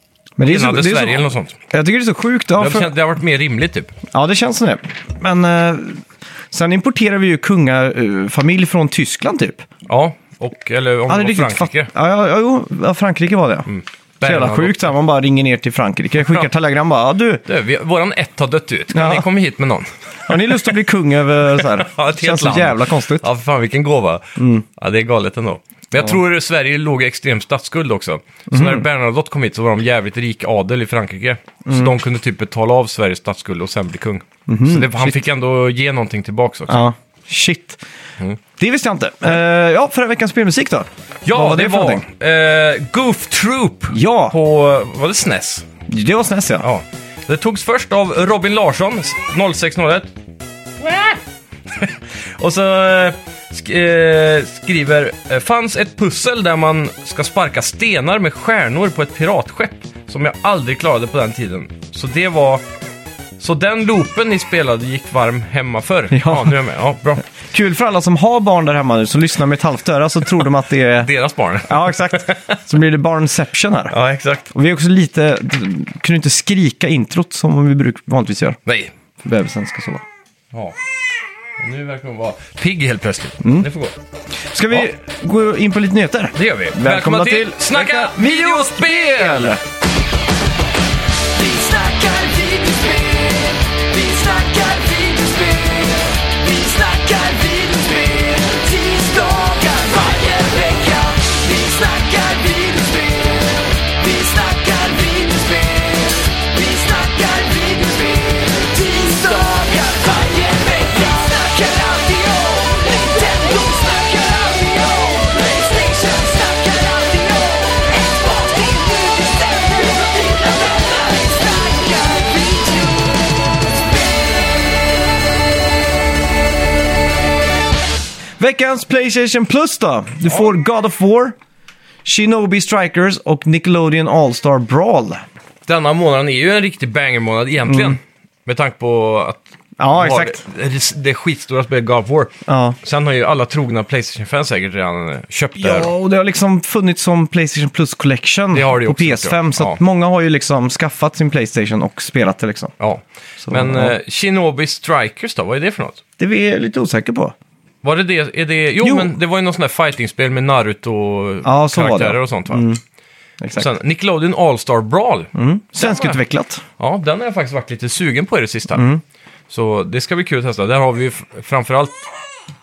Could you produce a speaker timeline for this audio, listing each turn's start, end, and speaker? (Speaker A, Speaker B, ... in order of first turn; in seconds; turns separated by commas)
Speaker A: 0.4-2.9, Speaker B: 0.4-1.6, Speaker B: 2.5-3.9, Speaker A: 4.1-9.7, Speaker B: 9.9-11.9, Speaker A: 11.1-13.7, Speaker B: 13.7-14.9, Speaker A: 14.2-17.4, Speaker B: 17.4-20.5, Speaker A: 18.9-19.2, Speaker A: 20.3-23.2, Speaker B: 21.6-36.8, Speaker A: 24.4-24.6, Speaker A: 28.5-28.8, Speaker A: 31.6-31.9, Speaker A: 34.5-35.2, Speaker A: 36.7-37.8, Speaker A: 38.6-42.0, Speaker B: 41.2-45.7, Speaker A: 43.9-44.3, Speaker A: 45.9-46.7, Speaker B: 46.6-50.1, Speaker B: 50.8-51.2, Speaker B: 51.7-62.6, Speaker B: 63.4-67.2, Speaker A: 66.1-66.6, Speaker A: 67.2-71.1, Speaker B: 71.0-72.6, Speaker A: 71.6-73.9, Speaker B: 73.9-74.5, Speaker A: 74.5-78.6, Speaker B: 78.7-78.9, Speaker A: 79.2-80.0, Speaker B: 80.5-80.8, Speaker B: 81.6-84.0, Speaker A: 83.4-83.7, Speaker A: 84.5-89.6, Speaker B: 86.3-89.6, Speaker C: 91.3-123.2, Speaker A: 128.4-131.4, Speaker A: 132.1-135.2, Speaker B: 135.7-145.9, Speaker A: 137.7-138.0, Speaker A: 139.8-140.4, Speaker A: 142.5-142.8, Speaker A: 145.6-152.7, Speaker B: 148.5-149.8, Speaker B: 152.8-156.0, Speaker A: 153.4-153.9, Speaker A: 156.2-157.3, Speaker B: 157.8-162.7, Speaker A: 158.8-159.1, Speaker A: 161.4-162.8, Speaker A: 163.4-163.7, Speaker B: 163.5-166.2, Speaker A: 165.3-166.6, Speaker B: 166.8-168.9, Speaker A: 168.7-169.0, Speaker B: 169.5-172.1